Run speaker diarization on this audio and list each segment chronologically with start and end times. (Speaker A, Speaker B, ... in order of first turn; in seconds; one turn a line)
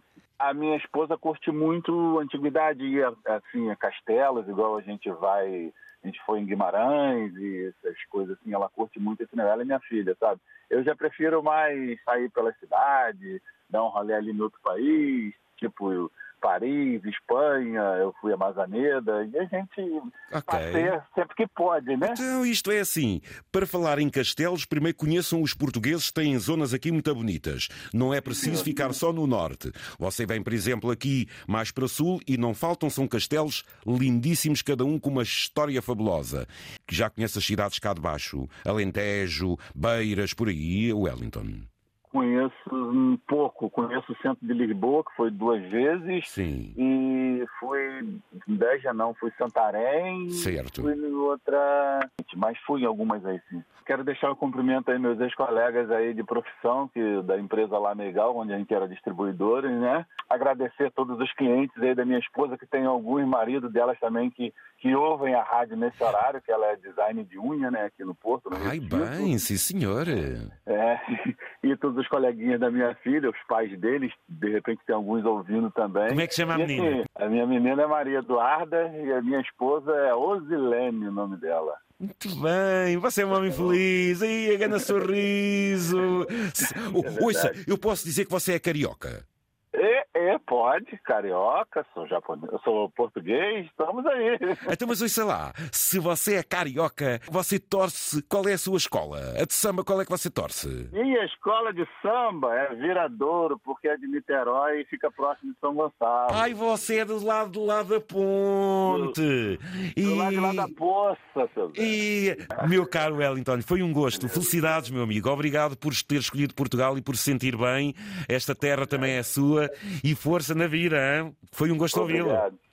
Speaker A: 0.4-22.2
Speaker B: 20.3-20.9
Speaker B: 22.0-41.7
Speaker A: 28.2-28.9
Speaker A: 42.1-69.4
Speaker B: 46.2-46.8
Speaker B: 50.3-50.9
Speaker B: 68.5-70.5
Speaker A: 70.7-81.8
Speaker B: 76.1-77.0
Speaker B: 82.0-89.2
Speaker A: 86.6-87.6
Speaker A: 89.7-94.7
Speaker B: 94.7-100.9
Speaker A: 100.9-106.5
Speaker B: 106.3-110.7
Speaker A: 108.8-109.1
Speaker A: 110.0-112.0
Speaker B: 111.7-122.4
Speaker A: 114.1-114.5
Speaker A: 121.9-122.5